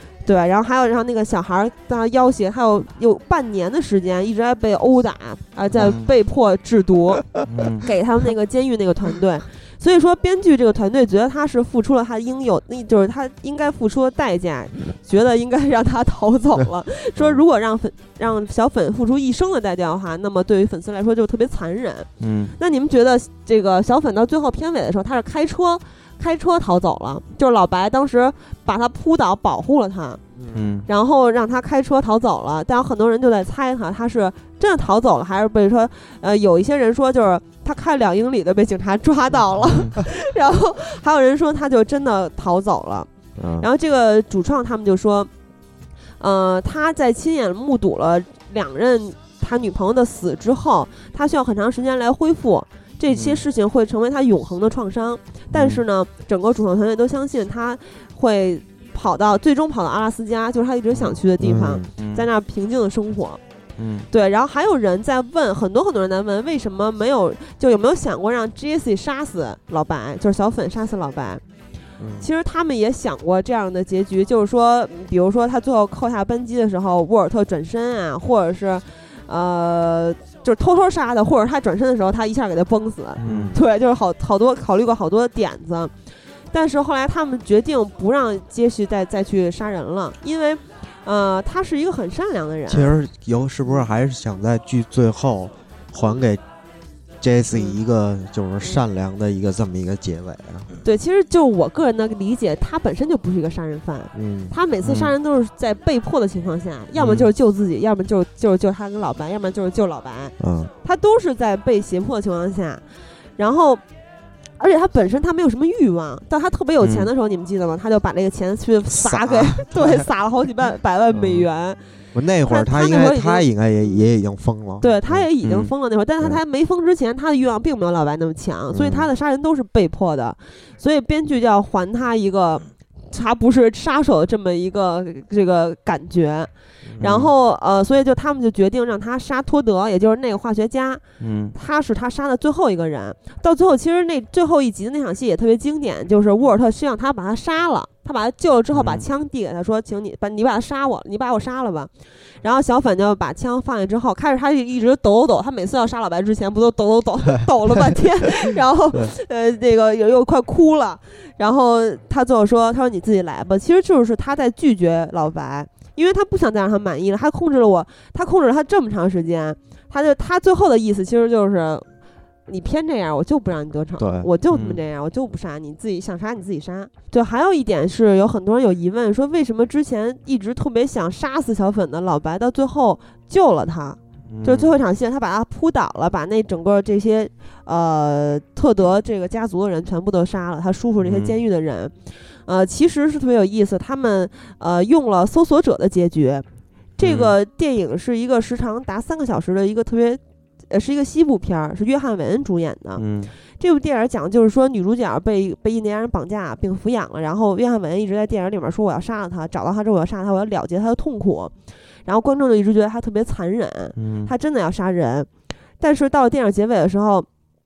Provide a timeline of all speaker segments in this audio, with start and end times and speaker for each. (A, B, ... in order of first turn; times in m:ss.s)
0:00.2-0:30.2 A
0:05.7-0:06.1 B
0:07.4-0:07.9 B
0:22.2-0:22.5 B
0:30.4-0:30.6 C
0:30.5-0:30.9 B
0:30.9-0:43.1 A
0:39.7-0:40.0 B
0:43.4-0:43.7 C
0:43.6-0:45.3 A
0:46.2-1:03.4 A
0:53.1-0:53.4 B
0:55.5-0:55.8 B
1:01.4-1:01.9 C
1:02.0-1:02.3 B
1:03.8-1:04.1 B
1:04.1-1:11.4 A
1:12.0-1:12.3 C
1:12.2-1:25.9 A
1:23.2-1:23.6 C
1:23.2-1:23.6 B
1:26.5-1:32.9 A
1:32.7-1:36.4 C
1:37.2-1:40.7 C
1:40.8-1:52.8 A
1:44.1-1:44.5 C
1:44.8-1:45.1 B
1:47.0-1:47.3 B
1:50.4-1:50.7 C
1:53.4-1:53.8 A
1:54.6-2:01.8 A
1:56.8-1:57.1 B
1:58.9-2:00.0 C
2:01.1-2:01.5 C
2:02.1-2:05.3 C
2:02.5-2:04.0 A
2:04.8-2:21.0 A
2:05.4-2:05.7 B
2:08.7-2:09.1 C
2:17.0-2:17.3 B
2:21.2-2:21.6 B
2:21.6-2:51.9 A
2:28.7-2:29.0 B
2:52.5-3:16.4 A
2:54.0-2:54.3 C
2:54.5-2:54.8 B
3:04.3-3:04.7 B
3:11.0-3:11.4 B
3:17.0-3:23.0 A
3:17.0-3:17.4 B
3:23.0-3:23.3 B
3:23.6-3:31.5 A
3:32.0-3:35.3 A
3:34.0-3:34.3 B
3:35.8-3:37.3 A